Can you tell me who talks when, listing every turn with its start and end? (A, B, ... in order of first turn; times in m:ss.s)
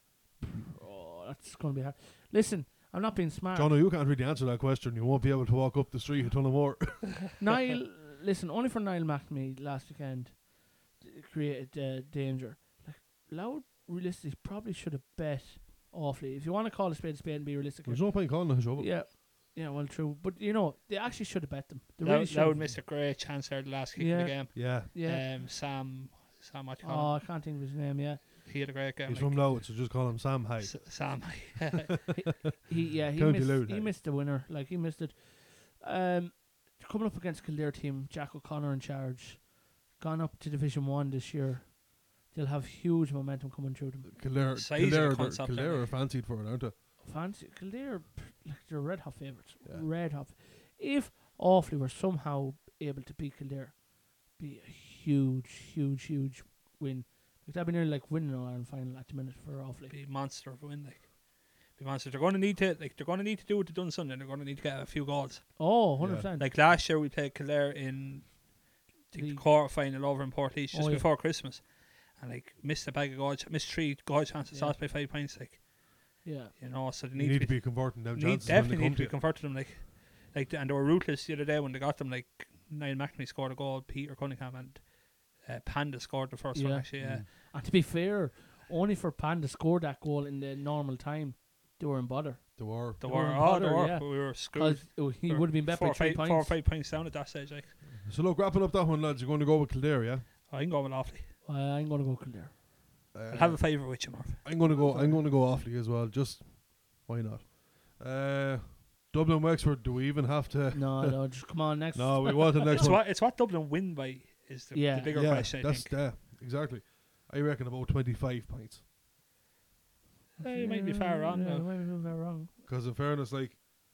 0:00.4-0:03.8 A
0:03.5-0:07.2 B
0:07.4-0:22.8 A
0:17.8-0:18.9 B
0:22.0-0:27.2 C
0:24.0-0:25.2 A
0:24.5-0:24.9 B
0:26.8-0:28.2 A
0:28.4-0:30.0 C
0:29.0-0:31.6 B
0:30.6-0:32.0 C
0:32.2-0:44.1 A
0:32.7-0:33.9 B
0:44.0-0:46.7 B
0:44.5-0:46.0 C
0:47.0-0:59.9 A
0:59.9-1:05.8 C
1:05.6-1:06.5 A
1:06.0-1:06.3 B
1:06.4-1:27.3 C
1:09.1-1:09.4 A
1:10.7-1:11.1 A
1:14.5-1:14.8 A
1:16.2-1:16.5 A
1:17.1-1:19.2 B
1:26.5-1:36.6 A
1:27.0-1:27.3 B
1:32.6-1:33.0 B
1:33.0-1:37.8 C
1:38.0-1:40.3 B
1:40.5-1:41.3 C
1:41.4-1:42.6 A
1:43.1-1:53.0 B
1:43.3-1:44.4 C
1:44.6-1:45.2 A
1:50.7-1:52.8 A
1:52.7-1:56.0 C
1:54.7-1:55.2 A
1:55.1-1:58.8 B
2:00.4-2:01.7 C
2:00.4-2:02.5 A
2:02.6-2:03.6 B